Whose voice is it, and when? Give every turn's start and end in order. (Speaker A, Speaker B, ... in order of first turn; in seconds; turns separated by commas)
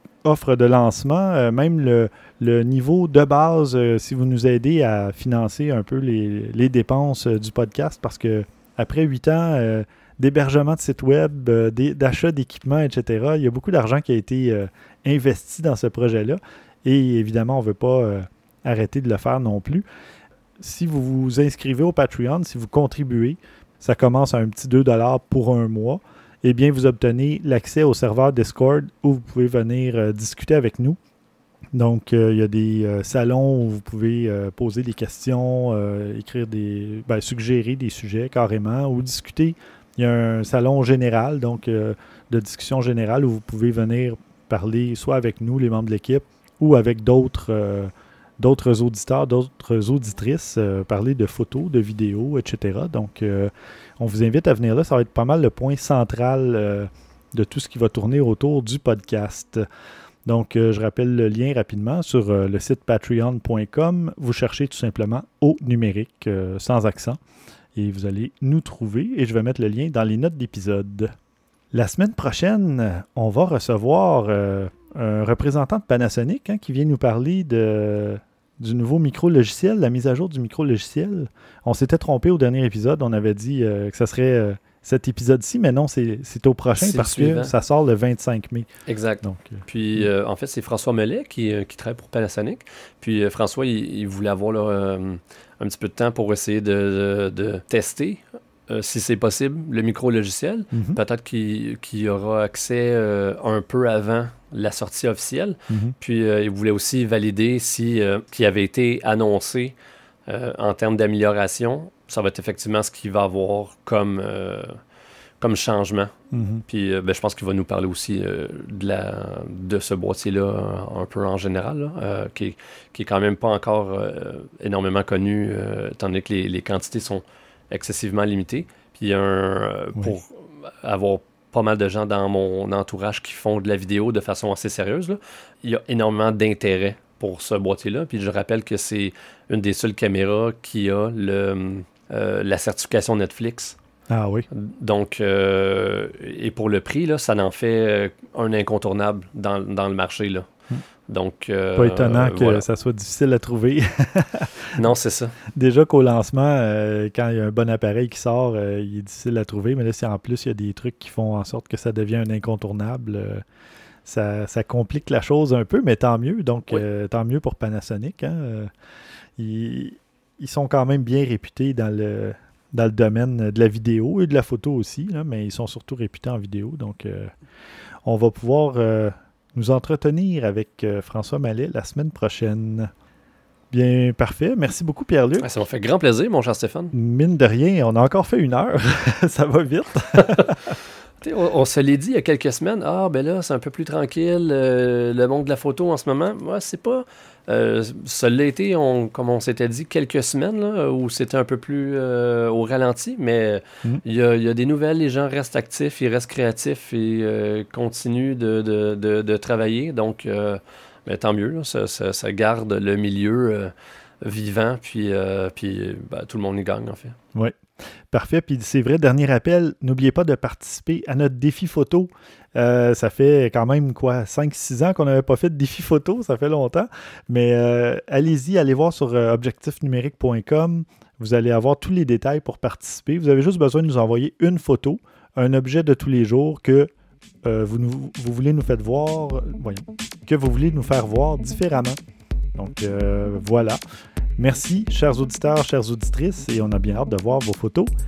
Speaker A: 0.2-19.8, Speaker A: 20.6-31.0, Speaker A: 31.7-59.6, Speaker A: 60.2-67.2, Speaker A: 67.7-71.1, Speaker A: 71.7-88.7, Speaker B: 86.8-87.5, Speaker B: 88.9-109.7, Speaker A: 89.2-90.1, Speaker A: 100.7-101.0, Speaker A: 105.7-105.9, Speaker B: 110.3-114.8, Speaker B: 115.4-116.1, Speaker A: 116.3-116.6, Speaker B: 116.7-143.8, Speaker A: 144.1-144.5, Speaker B: 144.5-150.5, Speaker B: 151.1-152.6, Speaker A: 151.8-154.8, Speaker B: 154.8-155.3, Speaker A: 155.5-163.4, Speaker A: 164.0-168.7, Speaker A: 169.4-177.3, Speaker A: 178.0-182.9, Speaker A: 183.7-185.5, Speaker B: 185.4-186.9, Speaker A: 186.9-190.8, Speaker B: 190.2-190.5, Speaker B: 191.2-217.2, Speaker A: 217.3-217.6, Speaker A: 218.1-236.9, Speaker A: 237.4-242.0, Speaker A: 242.6-243.8, Speaker A: 244.4-247.9